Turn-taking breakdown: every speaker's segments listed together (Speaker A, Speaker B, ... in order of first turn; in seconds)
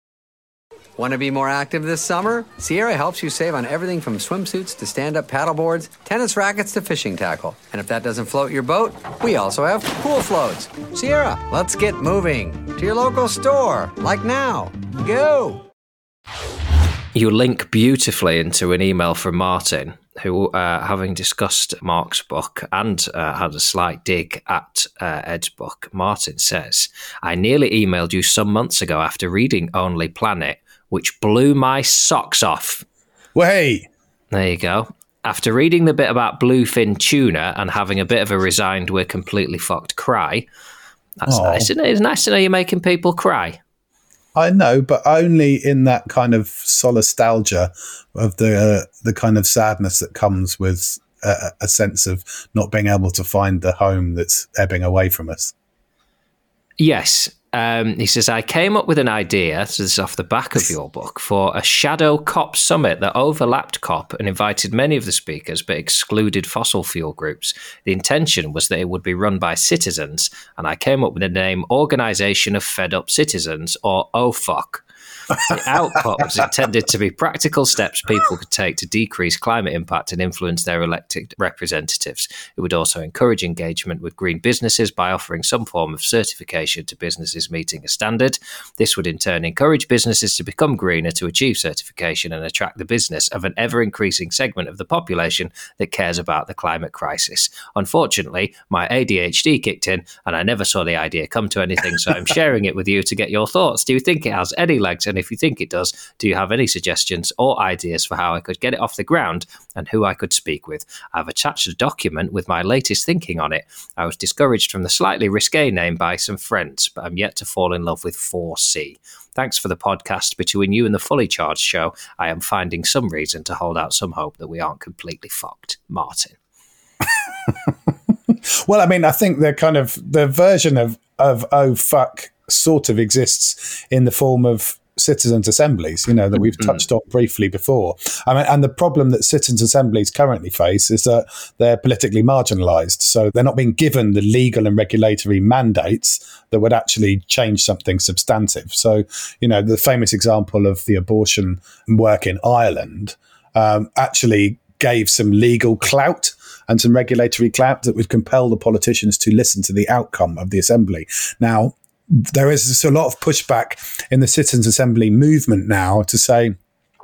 Speaker A: 1.0-15.7
Speaker B: 17.1-32.9, 34.3-40.5, 41.2-43.6, 56.8-74.8, 75.4-126.4
Speaker C: 33.4-33.9, 41.3-41.7, 44.4-55.5, 127.5-127.8, 128.3-166.6